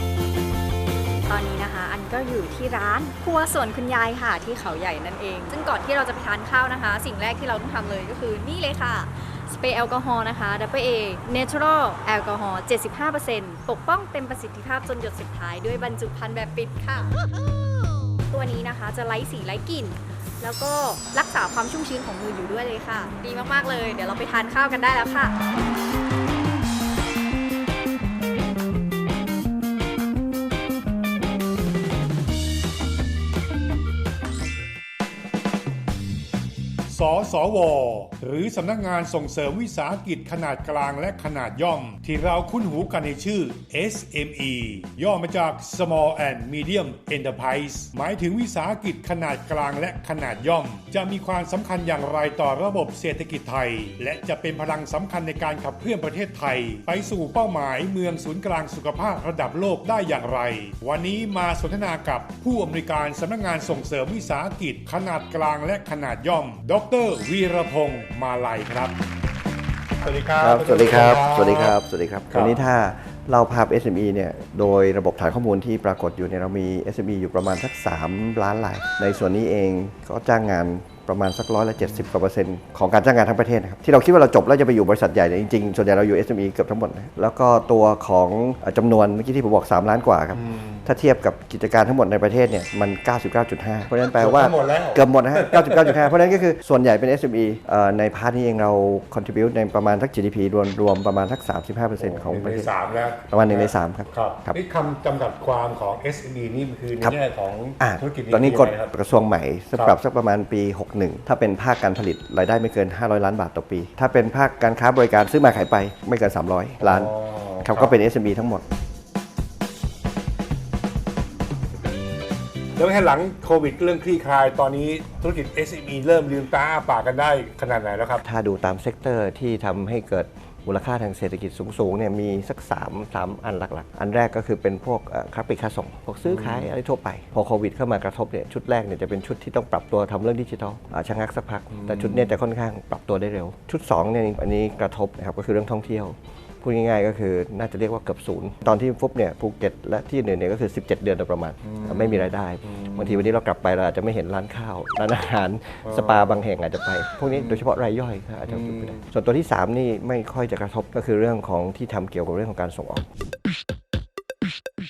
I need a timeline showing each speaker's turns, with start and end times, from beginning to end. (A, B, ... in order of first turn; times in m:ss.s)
0:01.3-0:17.1 A
0:18.3-0:25.3 A
0:36.9-1:08.9 B
1:10.0-1:11.8 B
1:10.4-1:42.7 C
1:12.3-1:12.6 B
1:30.3-1:30.8 B
1:34.1-1:36.0 B
1:42.0-1:48.9 B
1:43.3-1:44.6 C
1:47.8-1:58.6 C
1:56.8-1:57.9 B
2:02.8-2:08.2 B
2:08.2-2:43.0 C
2:16.2-2:16.7 B
2:21.7-2:22.3 B
2:31.6-2:33.2 B
2:35.8-2:36.3 B
2:37.3-2:37.6 B
2:38.5-2:39.0 B